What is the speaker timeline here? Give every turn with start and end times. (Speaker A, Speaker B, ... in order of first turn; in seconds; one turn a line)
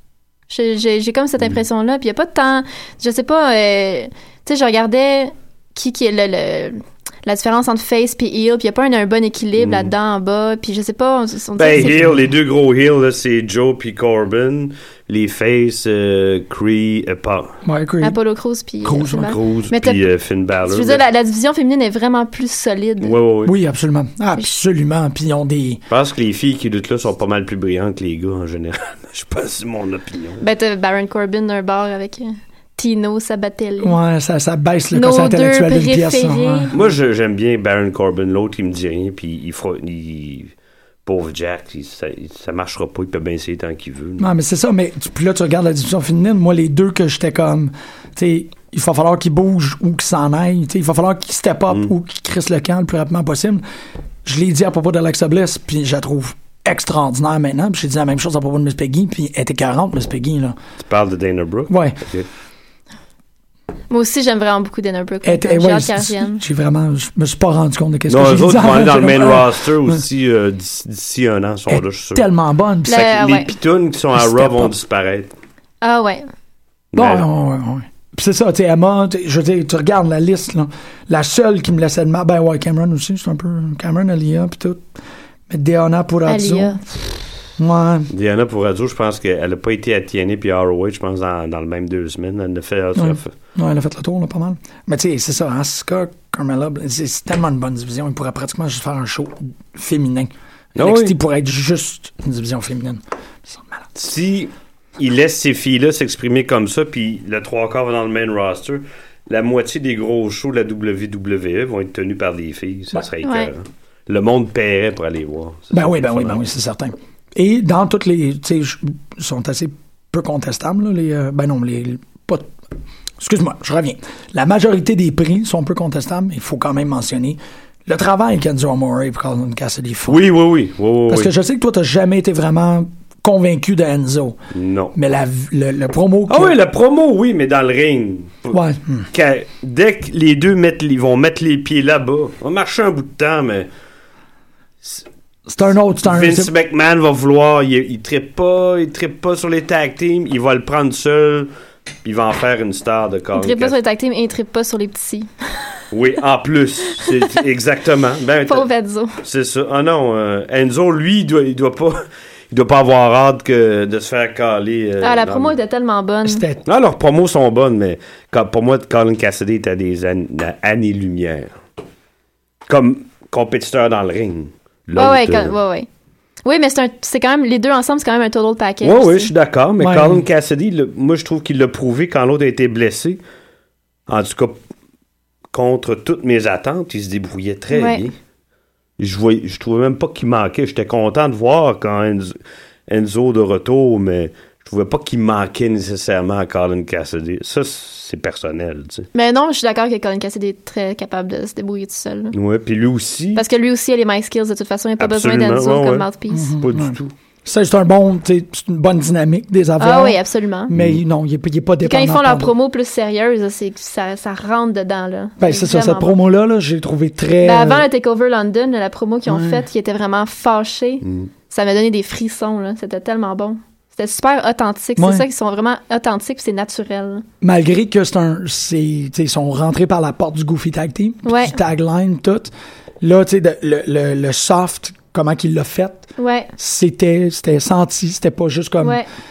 Speaker A: 0.5-12.1
Speaker B: 9.6-9.9
Speaker B: 11.6-17.5
Speaker C: 11.8-12.1
Speaker C: 17.6-18.2
Speaker A: 18.0-20.0
Speaker C: 18.8-19.4
Speaker B: 19.1-21.0
Speaker A: 20.6-23.1
Speaker B: 23.0-23.5
Speaker C: 23.4-25.8
Speaker B: 25.9-30.4
Speaker A: 30.4-34.0
Speaker C: 33.8-36.8
Speaker A: 34.9-36.7
Speaker B: 36.7-40.5
Speaker B: 41.0-44.3
Speaker C: 44.2-53.6
Speaker C: 54.2-60.6
Speaker B: 60.8-62.3
Speaker C: 61.7-62.0
Speaker A: 63.9-66.4
Speaker C: 65.2-70.0
Speaker B: 68.1-72.3
Speaker C: 71.7-73.0
Speaker A: 72.9-73.5
Speaker B: 72.9-75.3
Speaker C: 74.1-74.7
Speaker A: 75.8-76.2
Speaker B: 76.9-77.3
Speaker C: 76.9-84.9
Speaker C: 85.5-86.7
Speaker A: 86.3-86.8
Speaker C: 87.6-88.1
Speaker B: 88.1-93.3
Speaker C: 93.0-103.9
Speaker B: 100.8-101.1
Speaker B: 104.0-116.4
Speaker A: 113.2-113.5
Speaker C: 115.7-122.5
Speaker C: 123.2-130.2
Speaker B: 130.1-131.3
Speaker C: 131.1-134.4
Speaker B: 134.5-134.9
Speaker C: 134.9-136.6
Speaker B: 136.3-138.6
Speaker C: 138.5-139.1
Speaker B: 139.1-143.7
Speaker C: 145.5-146.5
Speaker B: 146.0-151.5
Speaker B: 152.0-153.8
Speaker A: 153.3-155.3
Speaker B: 155.9-158.7
Speaker A: 158.4-159.2
Speaker B: 159.2-165.6
Speaker A: 165.0-166.4
Speaker C: 166.2-166.6
Speaker B: 166.7-171.5
Speaker B: 172.7-175.6
Speaker A: 175.0-175.9
Speaker A: 176.4-179.3
Speaker B: 178.8-183.2
Speaker C: 179.8-180.2
Speaker B: 184.1-184.6
Speaker B: 185.5-188.1
Speaker A: 187.7-188.0
Speaker B: 189.0-192.4
Speaker B: 192.9-199.1
Speaker A: 199.1-202.3
Speaker B: 202.3-203.4
Speaker A: 203.4-206.6
Speaker B: 205.0-206.1
Speaker C: 206.3-212.5
Speaker B: 206.6-207.1
Speaker A: 209.8-210.7
Speaker B: 210.7-211.0
Speaker A: 211.8-216.2
Speaker C: 215.4-217.9
Speaker A: 217.4-227.2
Speaker C: 219.3-219.6
Speaker C: 225.0-225.3
Speaker C: 227.4-239.0
Speaker A: 231.2-231.6
Speaker A: 236.2-236.5